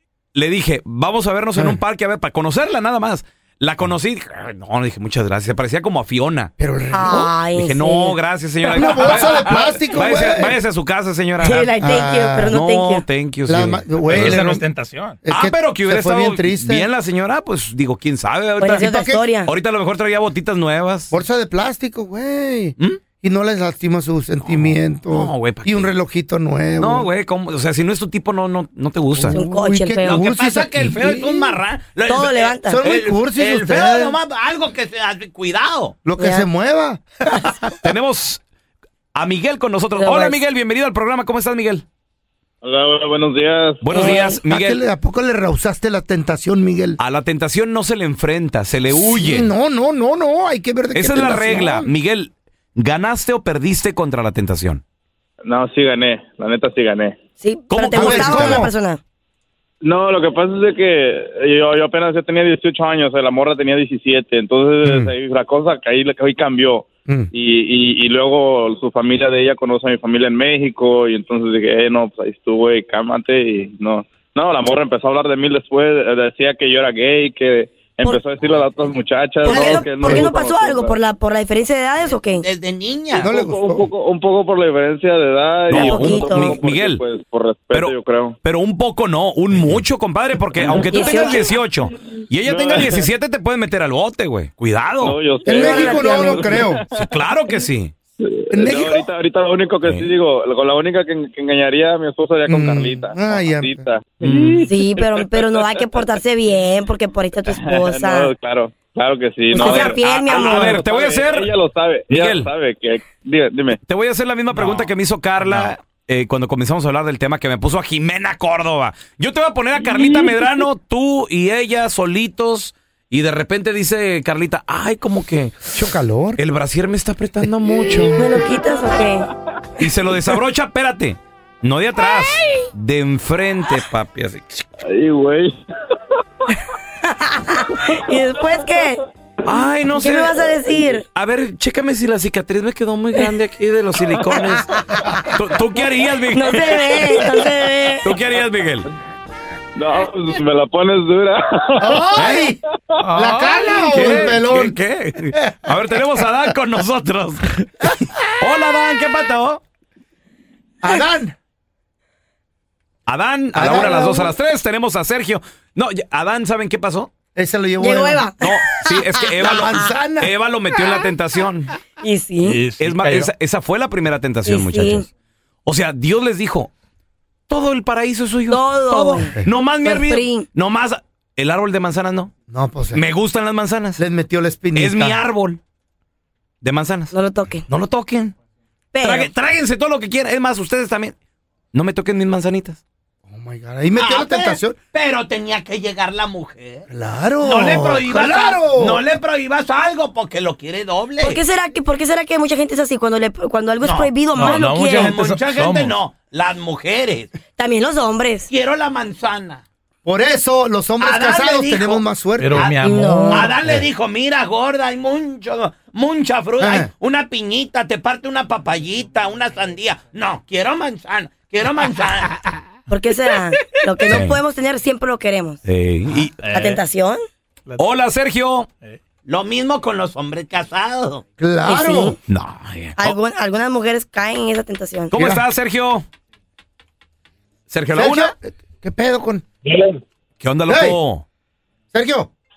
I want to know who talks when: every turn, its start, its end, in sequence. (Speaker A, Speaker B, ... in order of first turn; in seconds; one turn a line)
Speaker A: 0.3-6.5
Speaker B: 6.6-7.3
Speaker C: 6.9-8.2
Speaker A: 7.2-11.7
Speaker B: 8.7-10.6
Speaker C: 11.4-13.0
Speaker B: 11.8-12.6
Speaker A: 12.5-14.4
Speaker B: 13.4-14.6
Speaker D: 14.0-15.2
Speaker B: 15.2-16.9
Speaker A: 15.3-18.9
Speaker C: 18.6-19.5
Speaker B: 18.8-19.2
Speaker A: 19.4-21.1
Speaker B: 21.1-27.1
Speaker A: 24.4-25.9
Speaker A: 26.8-29.4
Speaker B: 29.2-31.6
Speaker C: 29.3-30.3
Speaker E: 30.0-36.0
Speaker C: 32.1-32.8
Speaker B: 32.6-34.2
Speaker B: 36.0-37.5
Speaker C: 36.1-36.5
Speaker A: 37.8-38.4
Speaker A: 39.1-41.8
Speaker C: 40.0-40.4
Speaker F: 42.6-44.0
Speaker A: 43.8-44.8
Speaker C: 43.9-44.4
Speaker B: 44.1-47.0
Speaker A: 47.0-49.5
Speaker B: 48.9-51.9
Speaker A: 50.9-54.8
Speaker F: 55.4-57.2
Speaker C: 57.4-59.0
Speaker A: 57.7-58.6
Speaker B: 58.0-58.7
Speaker F: 59.8-81.0
Speaker B: 64.8-65.1
Speaker B: 67.0-67.3
Speaker C: 79.4-82.5
Speaker B: 79.5-80.3
Speaker E: 82.3-83.3
Speaker F: 83.1-88.3
Speaker B: 83.2-83.9
Speaker A: 85.7-87.0
Speaker C: 85.8-86.6
Speaker A: 87.7-95.2
Speaker F: 90.6-91.4
Speaker C: 90.8-91.5
Speaker F: 92.4-93.1
Speaker F: 95.0-97.0
Speaker B: 95.5-96.8
Speaker C: 95.7-96.2
Speaker A: 96.9-97.9
Speaker F: 98.2-106.2
Speaker B: 98.5-99.1
Speaker A: 99.8-100.1
Speaker B: 102.5-103.8
Speaker A: 104.2-104.6
Speaker C: 104.7-108.3
Speaker F: 107.4-113.8
Speaker C: 109.5-110.8
Speaker A: 110.2-111.5
Speaker A: 112.1-112.5
Speaker A: 113.8-125.7
Speaker F: 114.5-114.9
Speaker F: 119.9-120.3
Speaker B: 125.7-126.4
Speaker A: 126.4-128.1
Speaker B: 127.4-128.1
Speaker C: 128.2-129.3
Speaker F: 128.2-128.6
Speaker A: 129.8-134.7
Speaker F: 134.8-135.6
Speaker C: 137.1-139.0
Speaker F: 138.3-138.7
Speaker A: 139.4-144.7
Speaker C: 140.0-141.0
Speaker C: 144.8-145.1
Speaker A: 145.3-147.2
Speaker C: 146.3-148.1
Speaker A: 148.0-148.8
Speaker F: 149.7-152.0
Speaker B: 151.8-154.8
Speaker A: 152.1-152.4
Speaker A: 153.5-159.6
Speaker F: 153.7-154.2
Speaker B: 155.3-156.2
Speaker B: 160.8-161.3
Speaker A: 163.1-167.1
Speaker B: 163.5-164.3
Speaker B: 167.3-168.2
Speaker C: 167.8-170.0
Speaker A: 168.4-171.7
Speaker B: 169.4-170.3
Speaker C: 172.0-172.6
Speaker D: 172.4-173.3
Speaker A: 172.8-175.1
Speaker C: 174.4-175.1
Speaker A: 175.7-176.7
Speaker A: 177.5-182.3
Speaker C: 178.5-180.5
Speaker B: 182.5-183.0
Speaker A: 182.9-184.0
Speaker B: 184.0-185.2
Speaker A: 184.7-185.6
Speaker A: 186.6-187.1
Speaker C: 187.1-187.7
Speaker A: 187.7-188.3
Speaker C: 188.9-189.3
Speaker A: 189.0-191.1
Speaker A: 191.7-192.8
Speaker B: 193.3-194.8
Speaker E: 193.9-196.8
Speaker B: 196.9-199.0
Speaker E: 197.4-201.4
Speaker C: 201.2-205.0
Speaker E: 203.8-204.2
Speaker D: 204.3-206.0
Speaker E: 204.9-207.3
Speaker C: 207.6-208.5
Speaker E: 208.5-209.6
Speaker B: 210.0-212.6
Speaker E: 211.0-212.0
Speaker D: 212.4-213.8
Speaker E: 212.6-222.6
Speaker C: 212.8-213.6
Speaker B: 216.6-216.9
Speaker C: 222.9-225.6
Speaker A: 224.1-224.3
Speaker A: 225.7-226.4
Speaker D: 226.2-226.8
Speaker C: 226.5-227.2
Speaker D: 227.7-228.0
Speaker A: 227.8-228.7
Speaker E: 229.2-231.2
Speaker B: 231.4-232.2
Speaker C: 231.6-232.2
Speaker A: 232.3-233.2
Speaker C: 233.0-235.1
Speaker A: 235.1-236.1
Speaker B: 235.1-235.4
Speaker A: 237.7-238.3
Speaker B: 237.9-239.4
Speaker A: 240.4-241.2
Speaker B: 240.7-241.0
Speaker B: 241.9-242.3